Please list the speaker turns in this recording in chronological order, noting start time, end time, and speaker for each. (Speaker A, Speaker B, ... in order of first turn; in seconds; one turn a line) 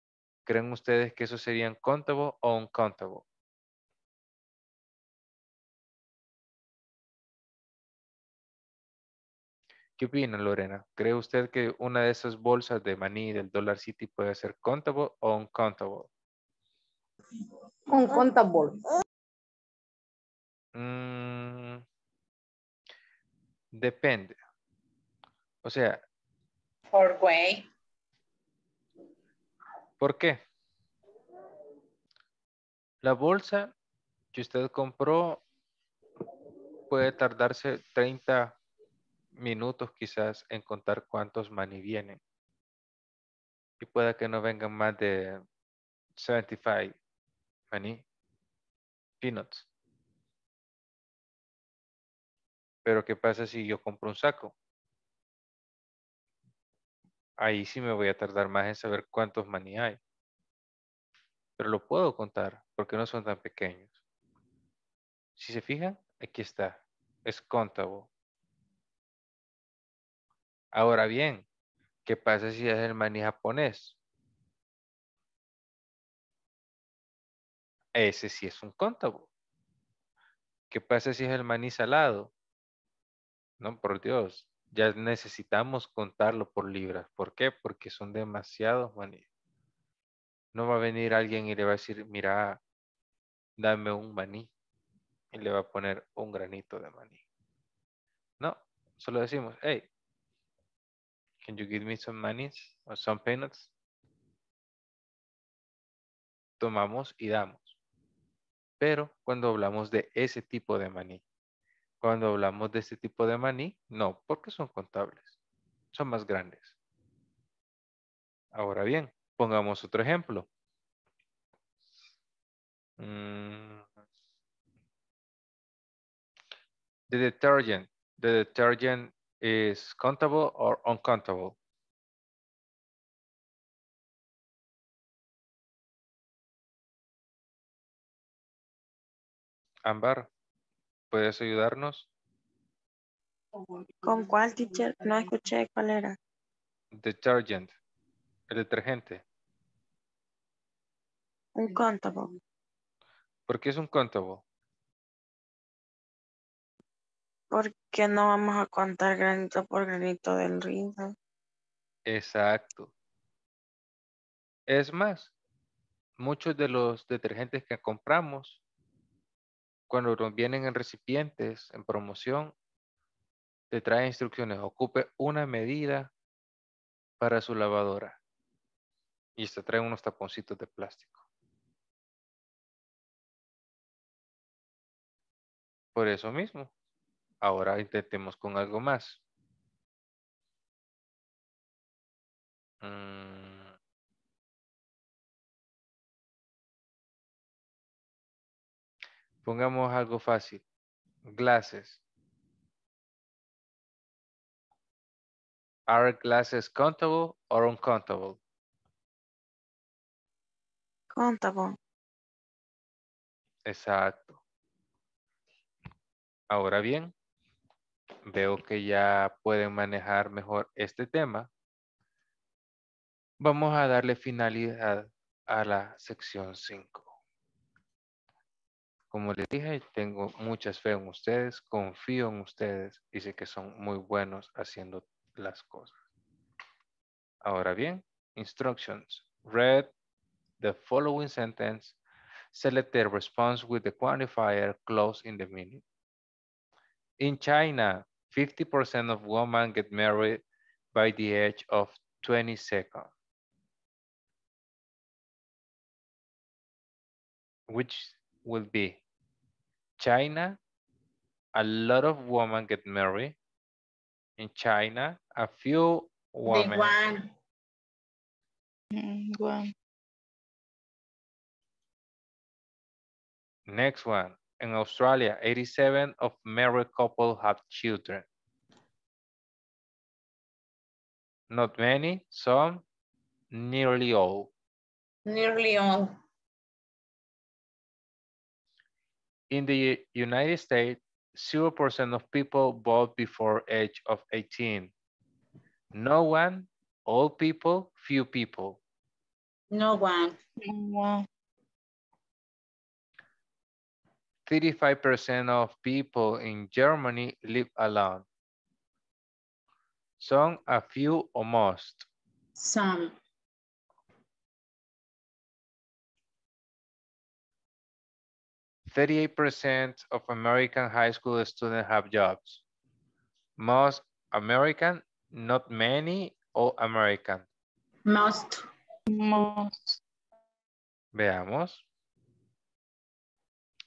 Speaker A: 0.5-3.2
Speaker A: 10.0-16.1
Speaker B: 17.9-18.8
Speaker A: 20.8-21.8
Speaker A: 23.7-24.4
Speaker A: 25.6-26.0
Speaker B: 26.9-27.7
Speaker A: 30.0-30.4
Speaker A: 33.0-33.7
Speaker A: 34.3-35.4
Speaker A: 36.9-38.6
Speaker A: 39.4-42.2
Speaker A: 43.8-45.4
Speaker A: 46.2-47.0
Speaker A: 47.7-48.0
Speaker A: 49.2-49.7
Speaker A: 52.9-54.5
Speaker A: 57.4-60.0
Speaker A: 61.6-64.0
Speaker A: 65.4-68.1
Speaker A: 70.7-71.4
Speaker A: 72.1-74.0
Speaker A: 78.0-79.3
Speaker A: 80.7-82.3
Speaker A: 83.6-89.3
Speaker A: 90.5-92.6
Speaker A: 93.6-94.5
Speaker A: 95.3-97.2
Speaker A: 98.4-99.9
Speaker A: 101.4-103.7
Speaker A: 106.6-107.8
Speaker A: 108.8-111.2
Speaker A: 112.0-115.4
Speaker A: 115.9-116.8
Speaker A: 118.5-120.5
Speaker A: 123.0-123.9
Speaker A: 127.1-131.6
Speaker A: 139.8-140.3
Speaker A: 141.1-142.1
Speaker C: 144.0-146.2
Speaker A: 146.9-147.7
Speaker A: 148.5-149.2
Speaker C: 151.6-152.3
Speaker A: 153.5-154.4
Speaker C: 157.5-161.1
Speaker A: 162.1-162.9
Speaker A: 164.7-165.3
Speaker A: 166.2-168.6
Speaker A: 169.9-172.5
Speaker A: 173.7-176.1
Speaker A: 177.2-178.2
Speaker A: 179.4-181.2
Speaker A: 185.9-186.7
Speaker A: 187.4-189.2
Speaker A: 192.8-193.7
Speaker A: 199.4-200.6
Speaker A: 201.3-202.0
Speaker A: 205.9-208.4
Speaker C: 211.1-211.8
Speaker A: 213.7-214.4
Speaker A: 216.5-217.1
Speaker A: 218.3-221.5
Speaker A: 223.4-227.1
Speaker A: 229.1-236.0
Speaker A: 237.4-239.9
Speaker A: 240.6-242.0
Speaker A: 242.5-245.8
Speaker A: 247.2-250.4
Speaker A: 250.9-253.1
Speaker A: 257.7-259.0
Speaker A: 260.0-260.6
Speaker A: 261.6-263.4
Speaker A: 264.4-266.9
Speaker B: 266.5-267.3
Speaker D: 268.9-269.7
Speaker A: 273.7-278.3
Speaker A: 281.5-282.8
Speaker A: 283.5-284.5
Speaker B: 285.3-286.1
Speaker A: 289.5-294.9
Speaker A: 295.9-298.8
Speaker B: 299.7-300.4
Speaker D: 300.6-301.2
Speaker A: 304.5-308.2
Speaker A: 310.2-312.1
Speaker B: 312.6-313.1
Speaker A: 318.9-322.6
Speaker A: 323.6-327.5
Speaker B: 328.1-328.6
Speaker D: 329.1-330.0
Speaker A: 331.1-331.8